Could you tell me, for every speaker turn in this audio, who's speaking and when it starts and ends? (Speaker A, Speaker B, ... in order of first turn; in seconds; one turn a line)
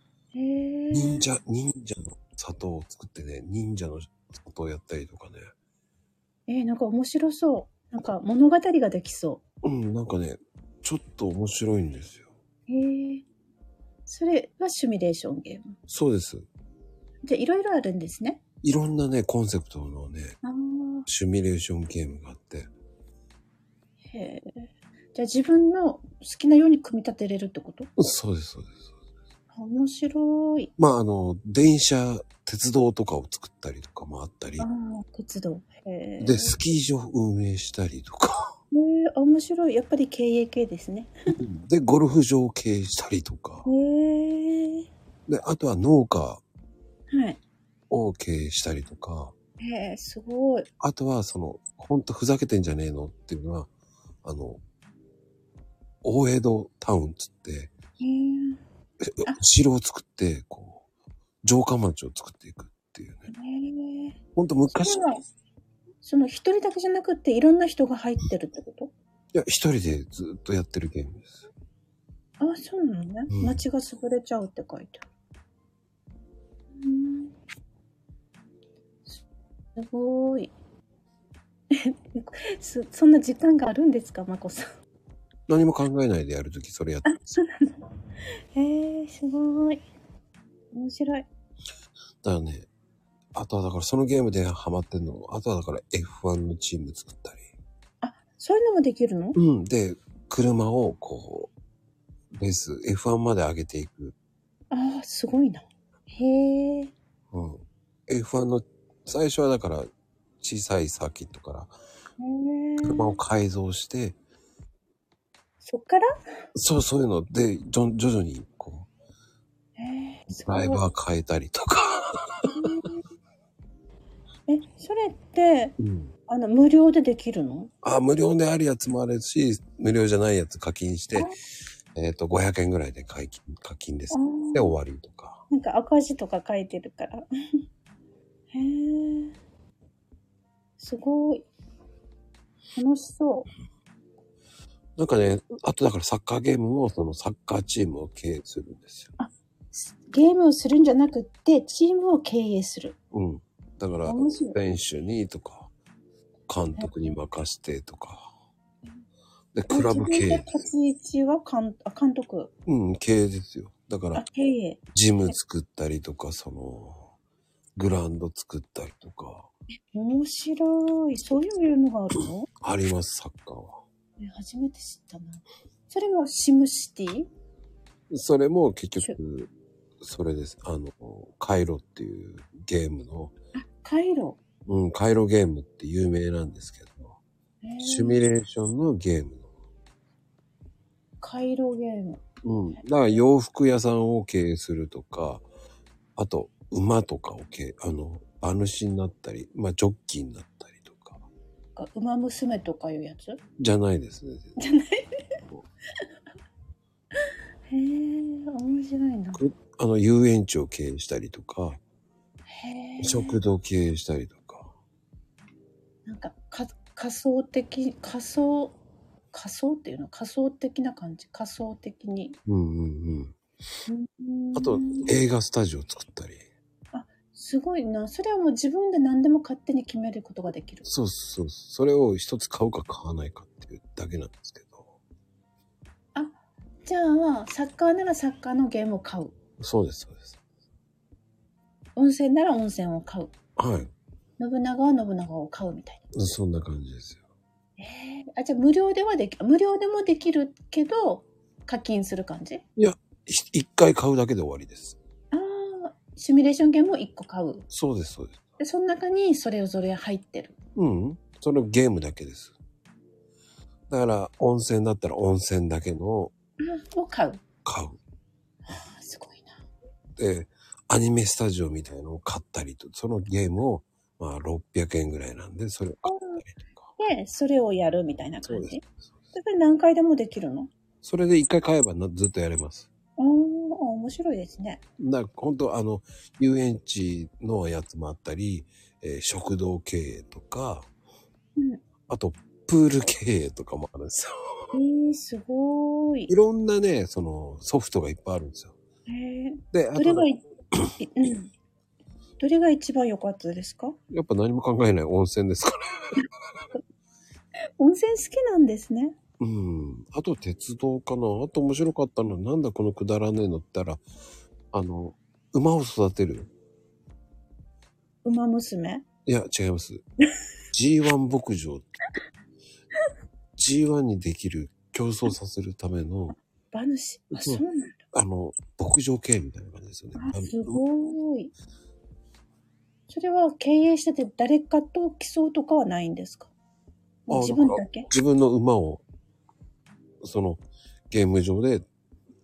Speaker A: 0.3-1.2
Speaker B: 0.9-5.5
Speaker A: 6.5-9.4
Speaker B: 9.6-12.3
Speaker A: 12.7-13.2
Speaker A: 14.1-15.8
Speaker B: 15.9-16.4
Speaker A: 17.2-18.4
Speaker B: 18.6-20.4
Speaker A: 20.4-21.1
Speaker B: 21.1-22.7
Speaker A: 24.1-27.9
Speaker B: 28.0-28.9
Speaker A: 29.5-30.7
Speaker B: 30.8-34.7
Speaker A: 34.6-36.5
Speaker B: 36.2-38.5
Speaker A: 38.7-41.1
Speaker B: 41.4-43.6
Speaker A: 43.6-44.9
Speaker B: 45.3-46.4
Speaker A: 47.1-47.4
Speaker B: 47.9-49.3
Speaker A: 49.6-50.7
Speaker B: 50.8-53.7
Speaker B: 54.2-54.6
Speaker B: 56.0-57.7
Speaker A: 58.0-58.6
Speaker B: 59.0-60.8
Speaker B: 61.4-63.3
Speaker A: 63.3-65.2
Speaker B: 64.3-65.0
Speaker A: 66.0-68.9
Speaker B: 69.3-71.4
Speaker A: 72.4-75.0
Speaker B: 73.3-73.6
Speaker A: 76.8-77.3
Speaker A: 79.8-80.5
Speaker A: 81.7-84.7
Speaker B: 85.5-87.1
Speaker A: 87.0-87.8
Speaker A: 88.5-89.8
Speaker A: 90.7-91.3
Speaker B: 92.2-92.7
Speaker B: 93.3-97.5
Speaker A: 98.0-99.4
Speaker B: 99.3-101.5
Speaker B: 102.3-104.1
Speaker A: 104.7-106.9
Speaker B: 107.3-109.9
Speaker B: 110.4-111.7
Speaker A: 112.2-113.2
Speaker B: 112.8-114.2
Speaker A: 115.6-116.0
Speaker B: 116.5-118.9
Speaker A: 119.8-120.8
Speaker B: 120.3-122.7
Speaker A: 122.5-123.0
Speaker A: 124.5-125.8
Speaker B: 125.8-126.1
Speaker A: 126.3-127.7
Speaker B: 127.8-131.3
Speaker B: 131.9-135.4
Speaker A: 134.1-134.7
Speaker A: 135.5-137.2
Speaker A: 138.5-139.3
Speaker A: 140.8-141.5
Speaker A: 142.7-143.5
Speaker B: 145.0-149.1
Speaker A: 149.2-152.9
Speaker B: 153.1-155.7
Speaker A: 154.1-154.6
Speaker B: 156.5-158.3
Speaker A: 156.8-157.1
Speaker B: 159.5-160.5
Speaker A: 159.7-162.5
Speaker B: 162.7-164.2
Speaker A: 164.1-165.3
Speaker B: 164.9-167.1
Speaker B: 167.8-169.5
Speaker A: 169.9-172.5
Speaker B: 172.6-173.8
Speaker A: 174.2-177.3
Speaker B: 178.1-183.3
Speaker A: 183.5-184.4
Speaker B: 184.7-187.2
Speaker A: 187.6-188.2
Speaker B: 187.8-189.5
Speaker A: 191.2-192.2
Speaker B: 192.4-195.4
Speaker B: 196.2-201.2
Speaker A: 201.8-203.4
Speaker B: 203.6-204.6
Speaker A: 204.6-205.2
Speaker A: 207.7-209.4
Speaker B: 209.3-211.8
Speaker A: 212.5-213.4
Speaker B: 213.0-214.7
Speaker A: 216.1-218.8
Speaker A: 219.3-222.4
Speaker B: 222.5-223.3
Speaker A: 223.9-225.1
Speaker B: 224.5-226.4
Speaker A: 226.9-230.9
Speaker B: 230.8-234.9
Speaker A: 236.1-239.3
Speaker B: 239.6-240.4
Speaker A: 241.9-243.3
Speaker B: 243.6-243.9
Speaker A: 244.4-246.0
Speaker B: 246.1-247.2
Speaker A: 247.8-252.6
Speaker B: 252.8-255.0
Speaker A: 255.3-257.6
Speaker B: 257.7-258.4
Speaker A: 258.6-260.6
Speaker B: 260.7-262.6
Speaker B: 263.9-266.3
Speaker A: 266.6-267.4
Speaker B: 267.6-268.0
Speaker A: 268.7-269.6
Speaker B: 270.2-276.9
Speaker A: 276.0-276.4
Speaker A: 277.0-278.8
Speaker B: 278.4-279.1
Speaker A: 279.3-280.7
Speaker B: 281.0-282.9
Speaker A: 283.2-284.8
Speaker B: 285.0-290.9
Speaker B: 292.1-294.7
Speaker A: 294.7-296.3
Speaker B: 296.3-298.7
Speaker A: 299.1-300.4
Speaker B: 299.7-300.3
Speaker A: 301.0-301.5
Speaker A: 302.4-304.0
Speaker B: 304.1-305.8
Speaker A: 307.8-309.1
Speaker B: 309.4-314.0
Speaker B: 314.7-316.5
Speaker A: 318.2-319.1
Speaker B: 319.2-320.0
Speaker B: 320.7-321.9
Speaker B: 323.6-326.4
Speaker A: 326.7-328.0
Speaker B: 327.3-330.8
Speaker A: 330.1-331.5
Speaker A: 333.1-336.5
Speaker A: 337.3-338.1
Speaker B: 337.3-339.0
Speaker B: 340.2-341.9